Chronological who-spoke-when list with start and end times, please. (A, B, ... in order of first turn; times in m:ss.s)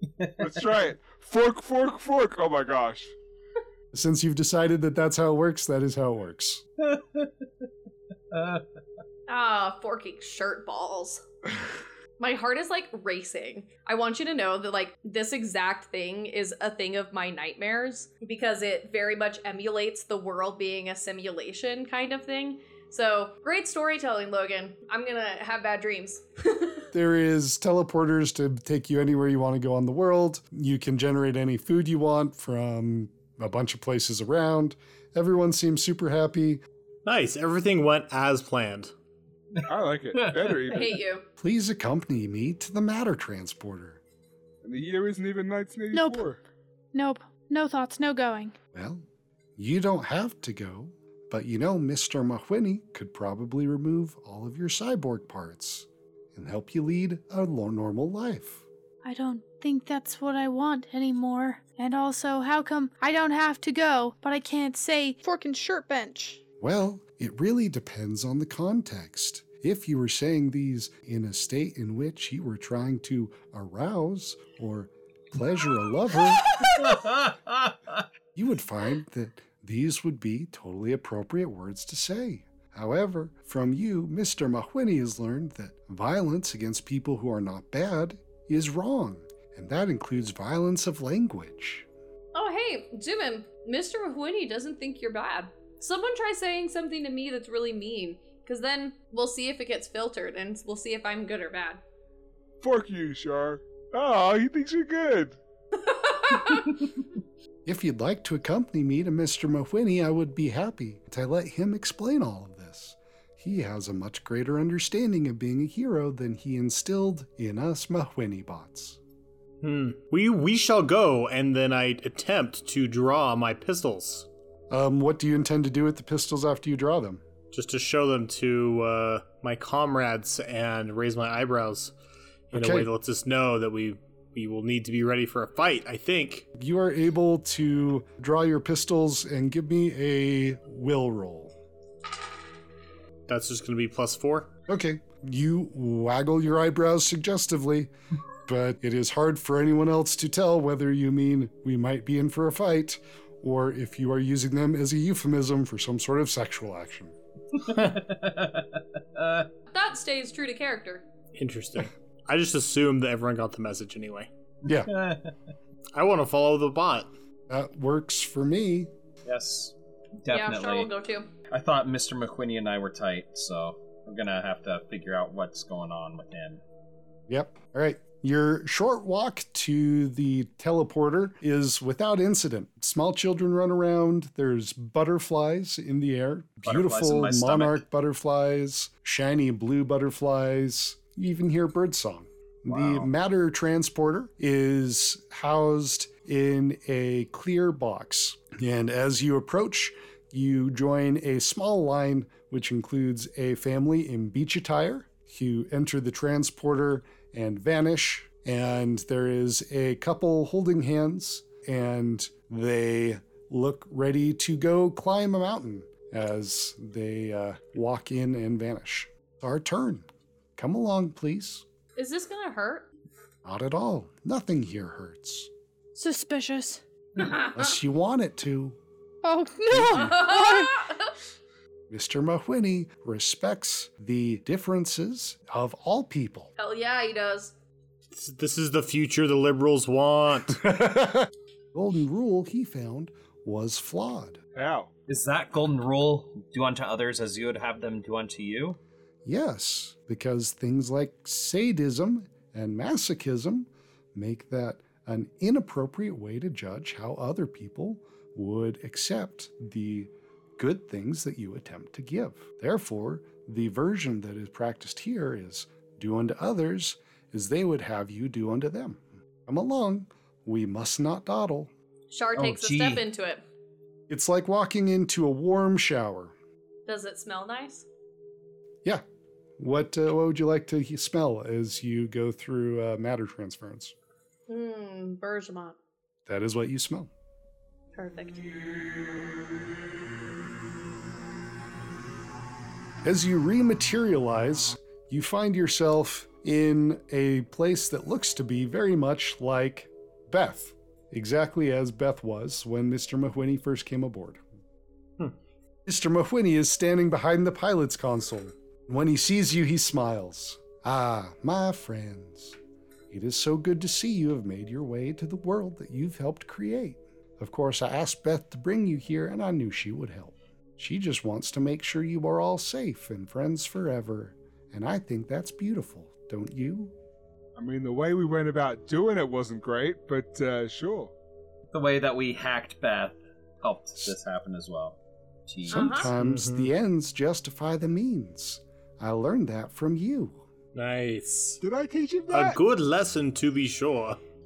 0:00.2-0:00.7 A
0:00.4-0:03.1 B
0:03.9-0:06.6 C
0:06.8-0:07.3 A
0:08.3-0:08.6 A
0:09.3-0:11.2 D
0:12.2-0:26.9 D
0:26.9-0:36.6 C
0:37.1-0:38.9 E
0:39.7-0:40.9 B
0:40.2-0:40.9 A
0:40.7-0:41.2 D
0:41.4-0:44.0 C
0:44.6-0:46.4 B
0:45.9-0:46.3 F
0:46.9-0:48.6 F
0:48.7-0:49.0 C
0:49.6-0:58.7 C
0:59.0-1:06.4 F
1:06.6-1:16.6 C
1:16.6-1:17.7 A
1:18.4-1:31.9 C
1:32.3-1:41.8 D
1:42.6-1:45.4 B
1:45.9-1:46.7 D
1:47.6-1:59.0 C
1:59.6-2:04.3 E
2:04.7-2:07.2 C
2:07.5-2:11.9 E
2:12.5-2:16.5 E
2:12.5-2:12.9 C
2:16.6-2:21.5 C
2:23.3-2:24.5 E
2:24.7-2:27.9 C
2:28.5-2:37.2 C
2:37.5-2:39.5 A
2:39.7-2:41.0 D
2:41.4-2:44.3 E
2:44.6-2:44.9 C
2:44.9-2:45.3 A
2:45.9-2:47.1 E
2:47.5-2:48.9 C
2:49.2-2:50.9 A
2:50.3-2:51.3 D
2:51.5-2:56.6 A
2:57.3-3:41.6 C
3:06.6-3:07.8 A
3:12.7-3:13.1 A
3:42.0-3:42.9 D
3:43.4-3:45.5 C
3:46.0-3:46.8 F
3:47.2-3:47.6 D
3:47.5-3:48.8 C
3:49.2-3:50.8 F
3:49.7-3:50.0 C
3:49.9-3:51.1 D
3:51.9-3:56.5 C
3:56.6-3:57.5 D
3:58.1-4:00.7 E
4:00.6-4:04.4 C
4:04.6-4:04.9 B
4:05.1-4:08.8 A
4:09.2-4:31.7 C
4:32.1-4:33.4 D
4:32.4-4:33.0 A
4:34.1-4:36.3 C
4:36.9-4:37.9 D
4:39.6-4:43.9 C
4:44.5-4:45.8 D
4:46.3-4:47.1 C
4:48.0-4:48.5 D
4:53.0-5:04.4 C
5:05.9-5:12.6 C
5:13.1-5:26.9 C
5:27.6-5:31.1 B
5:31.7-5:35.0 A
5:35.5-5:36.0 A
5:35.7-5:40.4 C
5:35.7-5:36.1 D
5:36.2-5:36.7 E
5:40.8-5:41.6 E
5:41.6-5:42.6 B
5:42.3-5:44.2 E